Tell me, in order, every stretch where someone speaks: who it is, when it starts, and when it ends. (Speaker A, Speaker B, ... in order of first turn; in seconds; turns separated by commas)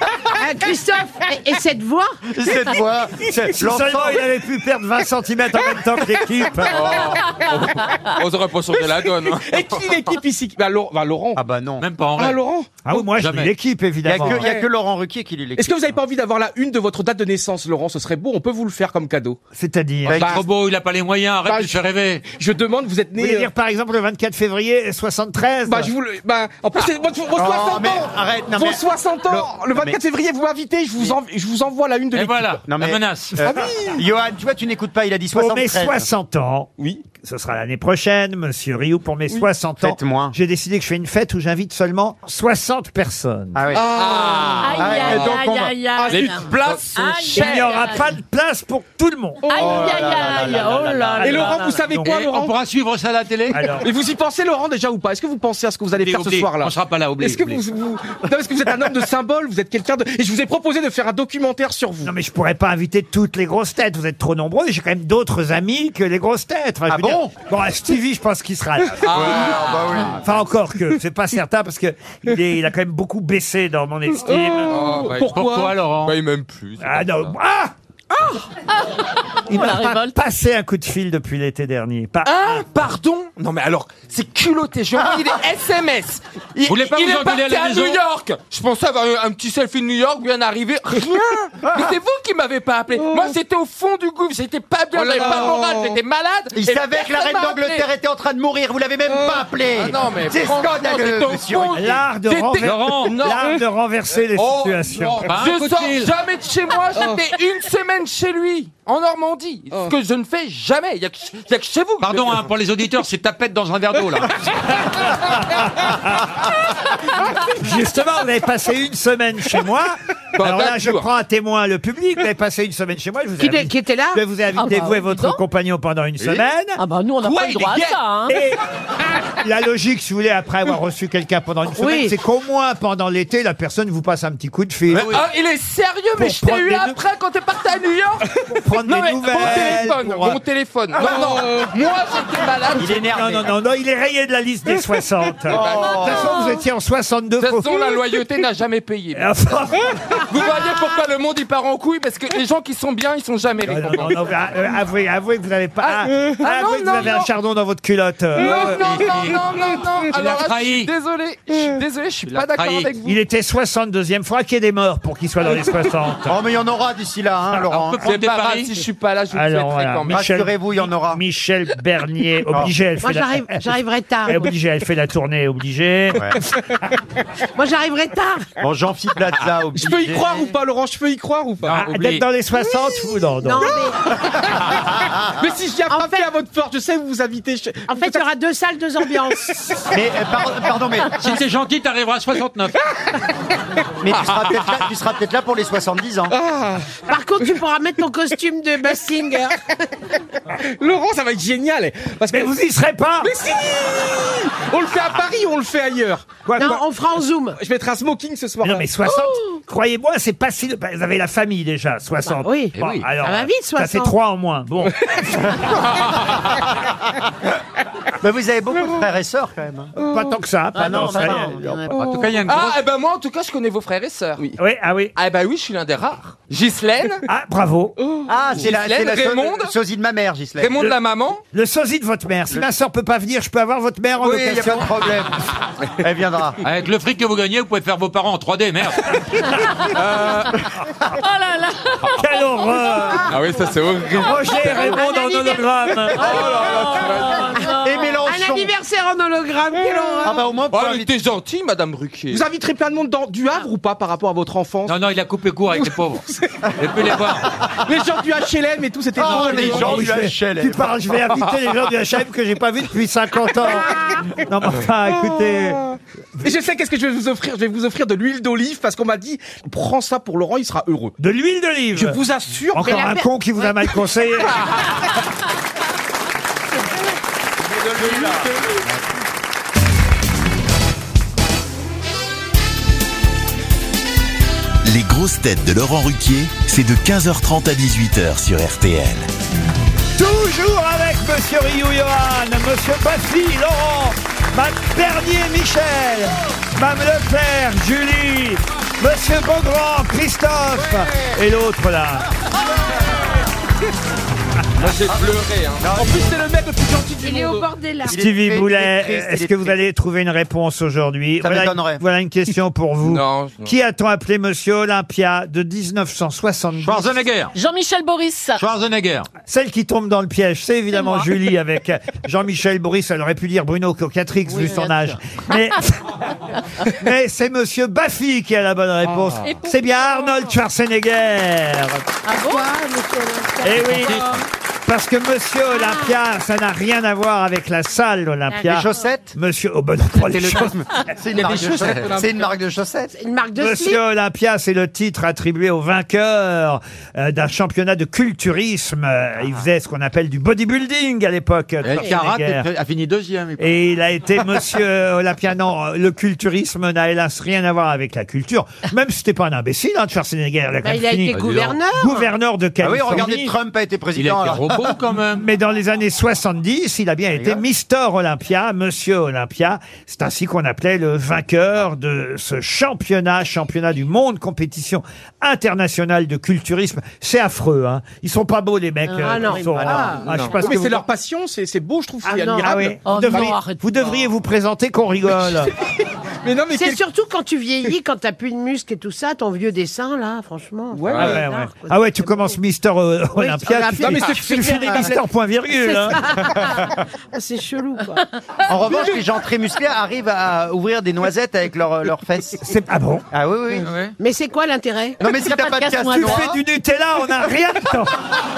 Speaker A: 0.3-2.2, Speaker B: 2.3-4.2, Speaker C: 3.6-7.0, Speaker D: 6.7-9.9, Speaker E: 7.5-7.8, Speaker E: 8.7-11.4, Speaker B: 11.3-11.8, Speaker F: 11.8-12.4, Speaker E: 12.2-12.8, Speaker C: 12.8-14.4, Speaker F: 12.9-13.5, Speaker B: 14.0-16.0, Speaker E: 14.2-14.7, Speaker E: 15.6-19.4, Speaker C: 19.5-20.3, Speaker B: 20.1-20.4, Speaker E: 20.1-20.5, Speaker F: 20.2-22.2, Speaker E: 21.4-23.5, Speaker C: 23.2-25.9, Speaker E: 25.6-32.6, Speaker B: 27.3-30.0, Speaker F: 32.1-33.4, Speaker B: 32.6-36.0, Speaker E: 33.4-34.0, Speaker C: 35.3-43.8, Speaker E: 36.8-37.0, Speaker B: 39.8-40.3, Speaker B: 43.5-44.0, Speaker E: 43.7-45.2, Speaker D: 43.9-45.3, Speaker G: 44.6-48.1, Speaker B: 44.8-45.7, Speaker E: 45.9-46.8, Speaker D: 46.1-47.5, Speaker C: 47.3-49.6, Speaker G: 49.5-51.9, Speaker B: 49.5-51.6, Speaker E: 51.2-52.5, Speaker C: 51.2-52.2, Speaker F: 52.0-53.7, Speaker C: 53.5-53.9, Speaker E: 53.7-62.1, Speaker F: 55.9-57.6, Speaker C: 62.0-69.5, Speaker B: 66.9-67.3, Speaker D: 69.0-69.9, Speaker B: 69.1-70.3, Speaker C: 70.2-74.9, Speaker E: 74.2-75.8, Speaker D: 74.7-75.3, Speaker F: 75.1-76.2, Speaker D: 76.0-77.3, Speaker C: 76.8-77.7, Speaker G: 78.3-80.2, Speaker C: 79.5-82.7, Speaker D: 82.2-97.8, Speaker F: 86.6-88.0, Speaker B: 91.7-91.9, Speaker E: 93.0-93.3, Speaker E: 94.9-96.0, Speaker B: 96.5-101.8, Speaker E: 99.1-99.4, Speaker D: 99.7-103.5, Speaker C: 101.7-105.3, Speaker F: 102.6-103.2, Speaker D: 104.3-112.4, Speaker F: 105.2-106.1, Speaker E: 107.0-107.3, Speaker F: 112.0-114.3, Speaker C: 115.5-116.5, Speaker C: 117.3-126.8, Speaker D: 120.4-121.0, Speaker A: 123.4-124.2, Speaker G: 124.5-125.4, Speaker G: 126.8-128.4, Speaker D: 127.2-128.0, Speaker C: 128.3-128.6, Speaker C: 129.3-135.1, Speaker A: 131.8-132.1, Speaker F: 134.9-135.2, Speaker D: 135.1-138.3, Speaker C: 136.2-137.0, Speaker C: 138.5-140.4, Speaker D: 138.8-143.2, Speaker E: 140.9-141.7, Speaker B: 142.8-143.5, Speaker C: 142.9-147.9, Speaker D: 145.5-146.1, Speaker B: 145.5-146.3, Speaker D: 147.4-149.3, Speaker C: 149.1-149.9, Speaker D: 150.2-154.2, Speaker C: 153.6-159.1, Speaker D: 155.8-157.3, Speaker D: 158.3-163.1, Speaker F: 160.1-160.9, Speaker F: 162.2-162.9, Speaker C: 163.0-166.3, Speaker B: 166.2-168.0, Speaker F: 167.5-168.7, Speaker D: 168.0-170.2, Speaker C: 169.3-173.6, Speaker B: 170.1-171.2, Speaker A: 173.0-174.5, Speaker C: 174.2-176.4, Speaker B: 176.1-176.4, Speaker A: 177.6-178.5, Speaker B: 178.6-180.5, Speaker E: 179.7-181.8, Speaker F: 181.7-182.2, Speaker C: 181.7-183.7, Speaker A: 183.4-184.1, Speaker B: 185.0-185.3, Speaker E: 185.3-188.2, Speaker A: 185.9-186.3, Speaker A: 187.9-189.5, Speaker B: 189.9-191.2, Speaker F: 191.2-192.8, Speaker B: 194.0-196.3, Speaker E: 196.3-196.9, Speaker A: 197.1-199.6, Speaker E: 200.6-202.5, Speaker C: 202.3-203.3, Speaker E: 203.2-206.4, Speaker C: 206.4-206.8, Speaker A: 206.6-207.6, Speaker E: 207.5-208.9, Speaker C: 208.6-215.2, Speaker A: 212.4-214.1, Speaker F: 212.7-213.1, Speaker B: 218.2-219.9, Speaker C: 220.0-221.8, Speaker B: 220.7-222.0, Speaker F: 221.9-222.8, Speaker D: 222.4-224.4, Speaker C: 224.6-225.1, Speaker D: 225.2-227.2, Speaker C: 227.3-228.0, Speaker E: 228.0-228.3, Speaker B: 228.3-230.7, Speaker D: 228.6-229.7, Speaker D: 230.6-231.4, Speaker C: 231.5-234.9, Speaker B: 234.2-236.6, Speaker F: 236.6-239.2, Speaker D: 239.8-240.6, Speaker G: 241.1-243.1, Speaker C: 242.1-243.3, Speaker D: 243.3-245.0, Speaker C: 244.1-246.4, Speaker A: 244.7-245.6, Speaker D: 246.1-247.6, Speaker G: 246.2-248.1, Speaker A: 247.6-250.4, Speaker B: 247.8-248.7, Speaker B: 250.2-251.1, Speaker D: 250.7-252.4, Speaker E: 252.3-255.0, Speaker F: 254.8-256.2, Speaker F: 256.8-257.5, Speaker E: 257.8-260.1, Speaker B: 259.1-260.9, Speaker C: 259.6-265.8, Speaker E: 265.1-271.1, Speaker C: 271.2-272.2, Speaker E: 271.9-273.0, Speaker C: 272.7-274.7, Speaker A: 272.8-273.7, Speaker D: 278.0-278.4, Speaker H: 284.8-289.3, Speaker C: 290.1-302.3, Speaker D: 304.8-305.8, Speaker B: 305.1-306.4, Speaker E: 305.9-307.7, Speaker A: 307.2-308.2, Speaker B: 308.0-309.8, Speaker C: 308.1-317.2, Speaker B: 311.4-312.0, Speaker D: 313.0-313.7, Speaker F: 316.8-317.5, Speaker G: 317.5-318.6, Speaker F: 318.6-319.3, Speaker C: 319.4-326.0, Speaker G: 324.5-325.1, Speaker C: 326.9-332.0, Speaker G: 329.4-330.4, Speaker A: 332.3-334.3, Speaker G: 332.3-332.7, Speaker C: 333.6-334.3, Speaker F: 333.8-334.4, Speaker C: 334.9-340.8, Speaker A: 335.8-336.0, Speaker A: 338.5-339.0, Speaker B: 338.6-339.3, Speaker B: 340.2-343.1, Speaker E: 341.3-342.5, Speaker F: 341.8-342.1, Speaker A: 343.1-344.0, Speaker C: 343.6-352.6, Speaker F: 351.8-353.7, Speaker C: 353.6-363.5, Speaker A: 360.8-362.2, Speaker F: 361.3-361.7, Speaker B: 362.8-365.0, Speaker F: 364.1-365.4, Speaker C: 365.3-381.0, Speaker B: 367.4-367.6, Speaker G: 379.2-380.0, Speaker A: 379.2-380.2, Speaker D: 380.3-380.6, Speaker E: 380.6-383.0, Speaker C: 382.2-385.7, Speaker A: 382.4-382.7, Speaker G: 383.0-383.9, Speaker E: 385.5-387.0, Speaker A: 386.7-392.5, Speaker E: 390.9-391.4, Speaker C: 391.1-396.3, Speaker A: 393.3-395.1, Speaker E: 393.9-395.2, Speaker A: 395.8-398.3, Speaker B: 398.7-402.7, Speaker C: 402.6-403.2, Speaker B: 403.3-403.9, Speaker F: 403.8-404.1, Speaker A: 404.2-405.2, Speaker B: 405.2-406.6, Speaker G: 405.3-406.4, Speaker C: 406.1-408.1